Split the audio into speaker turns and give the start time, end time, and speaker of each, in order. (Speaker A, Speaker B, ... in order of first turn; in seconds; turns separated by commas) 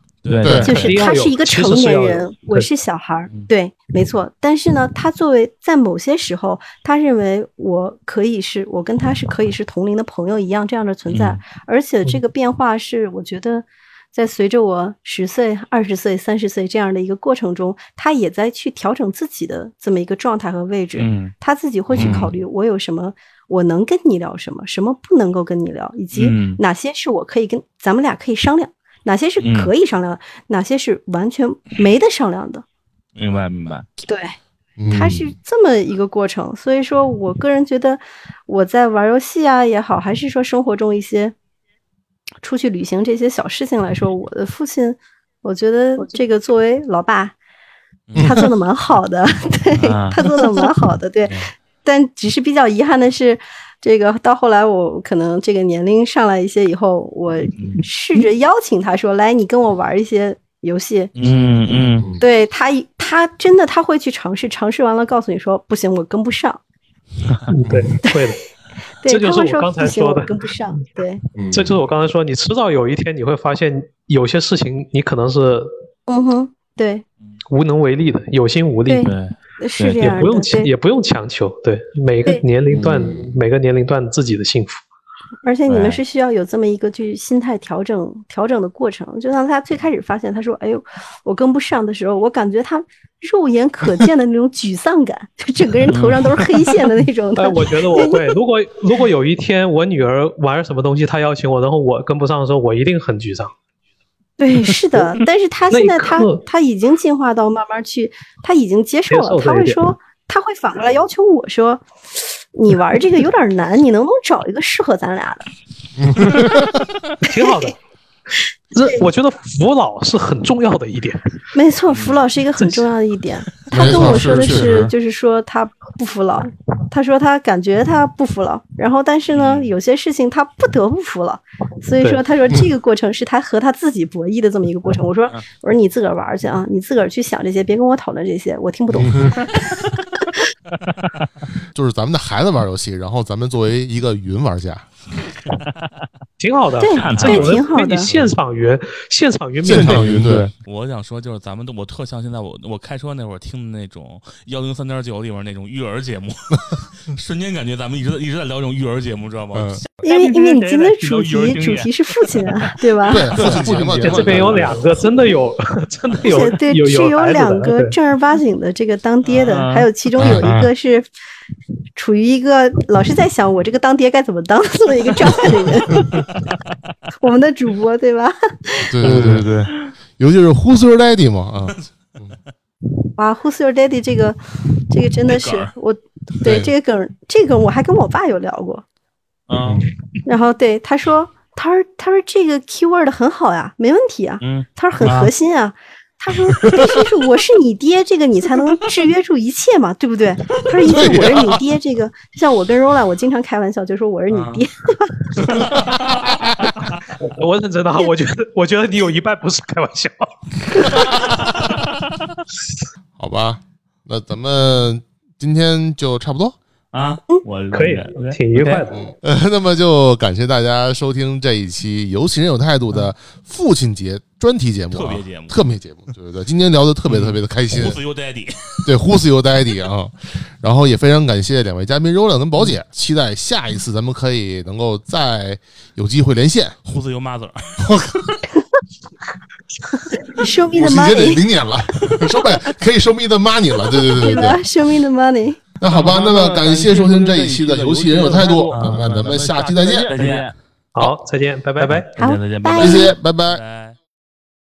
Speaker A: 0.2-1.1, Speaker B: 0.4-0.8, Speaker C: 0.4-0.7, Speaker D: 0.6-32.6, Speaker E: 0.7-2.7, Speaker A: 11.1-11.4, Speaker A: 21.0-21.3, Speaker C: 21.9-22.2, Speaker A: 21.9-22.3, Speaker A: 26.1-26.6, Speaker A: 29.4-29.7, Speaker A: 33.1-33.9, Speaker D: 34.0-34.4, Speaker C: 34.8-35.2, Speaker D: 34.9-41.3, Speaker D: 42.4-47.4, Speaker A: 48.1-48.4, Speaker C: 48.1-48.4, Speaker D: 48.2-61.1, Speaker A: 49.8-50.2, Speaker A: 61.1-62.1, Speaker C: 62.0-62.2, Speaker D: 62.2-66.6, Speaker E: 67.5-68.4, Speaker C: 67.6-67.9, Speaker D: 69.0-71.2, Speaker E: 69.1-70.3, Speaker C: 71.4-71.8, Speaker E: 71.5-75.7, Speaker D: 76.1-77.0, Speaker E: 77.5-79.1, Speaker D: 78.9-80.7, Speaker A: 79.0-80.0, Speaker E: 80.0-84.8, Speaker A: 82.7-83.2, Speaker D: 85.4-98.3, Speaker A: 85.7-86.0, Speaker A: 95.9-96.7, Speaker E: 97.3-103.5, Speaker D: 104.4-115.5, Speaker E: 105.7-106.4, Speaker E: 109.1-109.8, Speaker C: 116.0-116.8, Speaker E: 117.2-117.8, Speaker D: 117.3-117.7, Speaker E: 118.7-121.2, Speaker D: 121.5-140.4, Speaker A: 121.9-122.2, Speaker C: 123.7-124.9, Speaker A: 129.3-129.7, Speaker C: 139.0-139.4, Speaker C: 141.7-144.9, Speaker E: 146.4-150.2, Speaker D: 146.8-148.1, Speaker A: 147.0-148.3, Speaker C: 149.6-150.5, Speaker B: 149.7-150.5, Speaker A: 150.6-161.9, Speaker C: 159.5-159.8, Speaker D: 160.0-163.3, Speaker C: 163.1-164.7, Speaker A: 163.3-164.8, Speaker B: 163.3-164.6, Speaker E: 164.0-167.9, Speaker D: 166.2-171.1, Speaker A: 169.2-169.8, Speaker C: 170.2-170.5, Speaker B: 170.2-170.7, Speaker D: 171.9-176.2, Speaker D: 177.2-178.9, Speaker C: 178.9-179.5, Speaker B: 179.0-179.7, Speaker C: 180.2-182.4, Speaker D: 183.2-188.8, Speaker A: 185.3-185.7, Speaker C: 186.4-186.7, Speaker A: 189.5-189.9, Speaker D: 190.2-205.7, Speaker A: 194.4-195.3, Speaker C: 200.8-201.6, Speaker A: 204.3-204.6, Speaker C: 205.5-206.7, Speaker E: 207.2-211.2, Speaker C: 213.2-216.6, Speaker A: 216.9-218.8, Speaker E: 217.7-219.0, Speaker C: 218.9-228.0, Speaker A: 224.9-225.6, Speaker A: 227.1-228.9, Speaker C: 228.8-236.8, Speaker A: 236.8-237.9, Speaker C: 237.8-238.3, Speaker D: 240.2-241.4, Speaker C: 240.7-244.6, Speaker D: 244.2-245.6, Speaker C: 245.8-250.1, Speaker B: 245.9-250.5, Speaker A: 248.7-249.0, Speaker A: 250.1-250.5, Speaker E: 250.9-252.1, Speaker A: 251.8-253.9, Speaker D: 252.2-253.1, Speaker C: 252.8-253.6